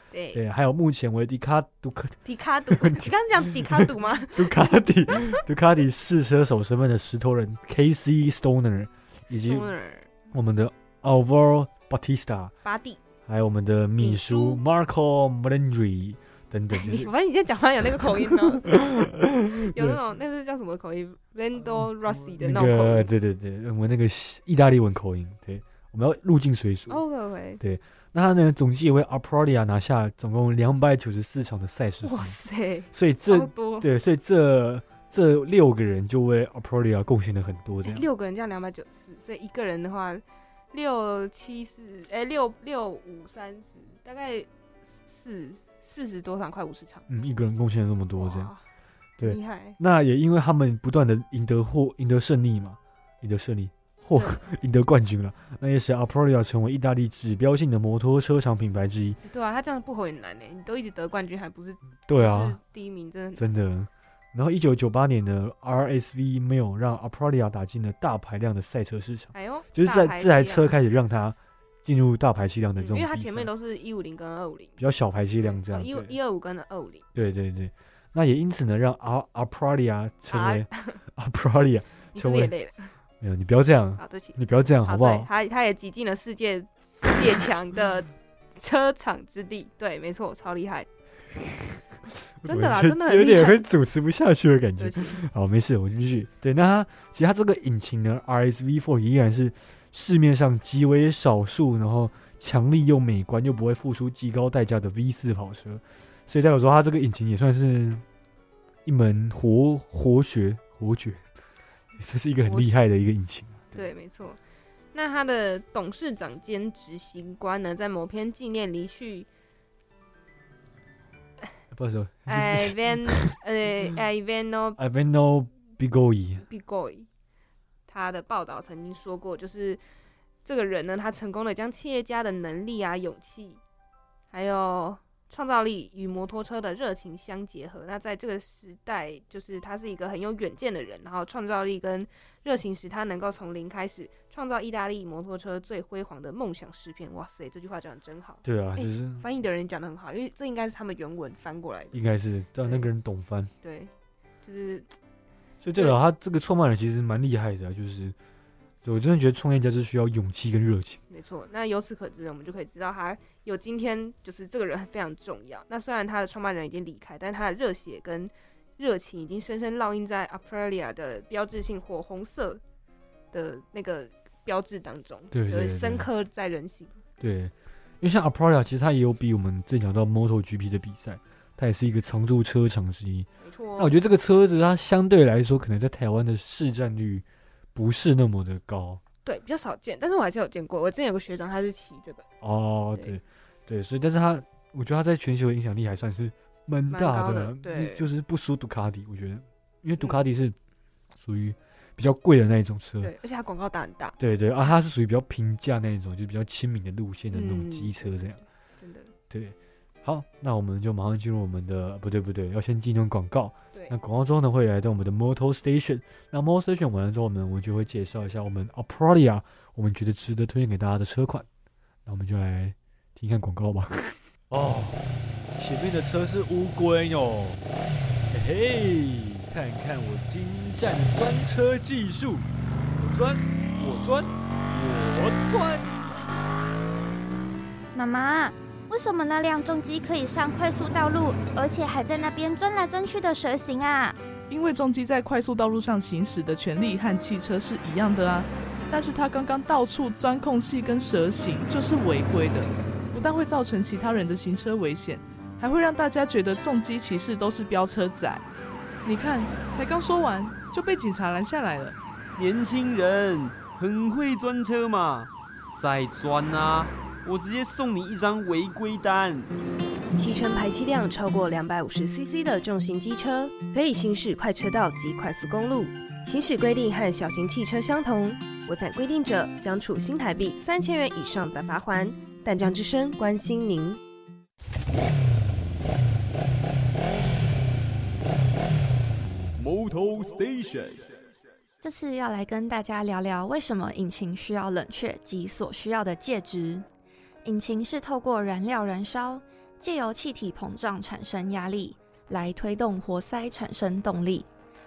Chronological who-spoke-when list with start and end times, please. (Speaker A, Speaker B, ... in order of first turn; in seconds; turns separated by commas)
Speaker A: 0.1-0.4, Speaker B: 0.3-9.7, Speaker A: 2.2-5.4, Speaker A: 9.3-10.1, Speaker B: 10.3-12.5, Speaker A: 12.6-13.0, Speaker B: 13.3-17.1, Speaker A: 14.0-14.6, Speaker A: 16.7-18.9, Speaker B: 18.7-20.0, Speaker A: 19.5-23.1, Speaker B: 22.2-27.0, Speaker A: 26.9-27.6, Speaker B: 27.6-32.4, Speaker A: 32.0-33.9, Speaker B: 32.9-38.0, Speaker A: 37.8-47.1, Speaker B: 47.1-48.5, Speaker A: 48.1-48.6, Speaker B: 49.2-59.2, Speaker A: 49.2-49.8, Speaker A: 54.1-54.4, Speaker A: 59.3-63.4, Speaker B: 62.1-62.6, Speaker B: 63.4-73.5, Speaker A: 69.3-70.7, Speaker A: 72.8-74.8, Speaker B: 74.8-76.2, Speaker A: 75.4-77.0, Speaker B: 77.1-82.5, Speaker A: 80.3-81.0, Speaker A: 82.1-82.9, Speaker B: 83.2-85.3, Speaker A: 84.0-90.9, Speaker B: 92.4-108.0, Speaker A: 92.4-93.6, Speaker A: 94.8-95.2, Speaker B: 108.8-111.2, Speaker B: 112.0-113.9, Speaker A: 112.4-112.7, Speaker A: 113.7-114.4, Speaker A: 114.9-119.3, Speaker B: 121.7-123.3, Speaker A: 122.3-124.8, Speaker B: 124.8-126.4, Speaker A: 126.4-127.1, Speaker A: 127.9-129.8, Speaker A: 130.4-133.6, Speaker A: 134.3-152.0, Speaker B: 148.4-149.2, Speaker B: 151.9-153.5, Speaker A: 153.6-153.9, Speaker A: 154.4-154.9, Speaker B: 155.6-158.1, Speaker B: 158.8-161.0, Speaker A: 161.1-172.6, Speaker A: 173.3-177.0, Speaker B: 175.3-176.1, Speaker B: 177.2-187.2, Speaker A: 183.4-184.0, Speaker B: 187.7-189.0, Speaker A: 189.2-192.3, Speaker B: 192.4-200.6, Speaker A: 196.9-198.0, Speaker B: 201.2-203.1, Speaker A: 203.0-204.2, Speaker B: 204.2-208.4, Speaker A: 207.3-209.1, Speaker B: 209.3-221.5, Speaker B: 222.1-227.6, Speaker B: 228.3-232.4, Speaker B: 233.0-236.2, Speaker C: 237.9-244.2, Speaker D: 244.5-258.4, Speaker D: 259.0-261.9, Speaker E: 262.4-269.5, Speaker A: 270.1-284.0, Speaker E: 289.6-291.1, Speaker F: 291.8-296.9, Speaker F: 297.4-304.5